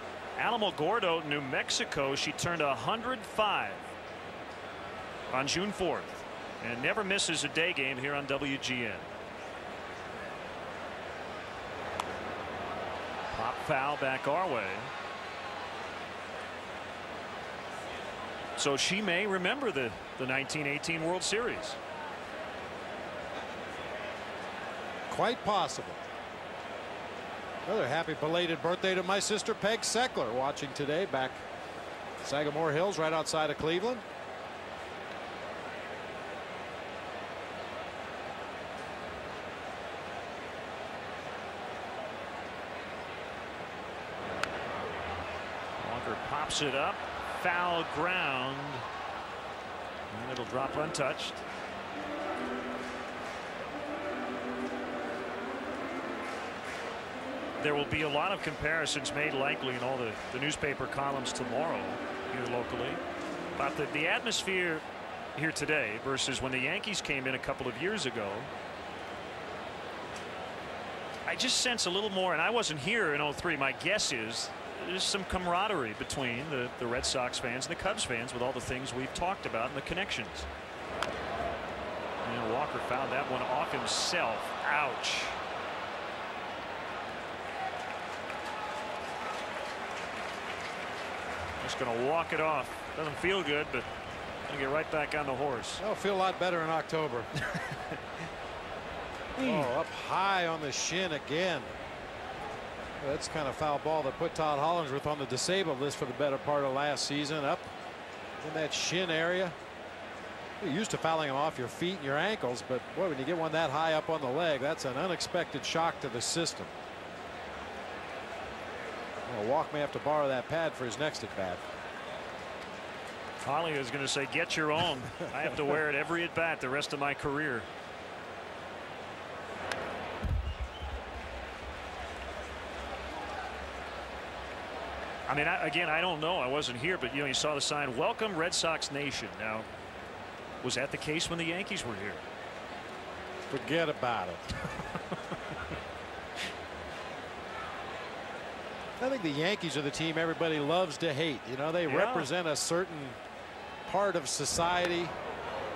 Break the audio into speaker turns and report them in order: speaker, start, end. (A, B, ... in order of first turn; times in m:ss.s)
0:00.4-0:03.9 A
0:05.3-0:09.1 A
0:13.3-0:14.9 A
0:18.6-0:21.8 A
0:25.1-0:26.0 B
0:27.6-0:31.4 B
0:32.2-0:34.0 B
0:45.8-0:48.8 A
0:50.1-0:51.4 A
0:57.6-1:03.0 A
1:03.5-1:08.5 A
1:11.2-1:20.5 A
1:22.2-1:25.4 A
1:31.6-1:33.9 A
1:34.4-1:35.8 A
1:35.8-1:37.3 B
1:39.4-1:39.7 A
1:39.4-1:41.7 B
1:43.0-1:47.7 B
1:48.4-1:49.5 B
1:50.6-1:56.7 B
1:59.3-2:01.6 B
2:03.4-2:07.7 A
2:15.3-2:19.7 A
2:20.6-2:22.2 A
2:23.5-2:24.4 B
2:29.0-2:33.2 B
2:31.8-2:32.3 A
2:33.8-2:35.1 B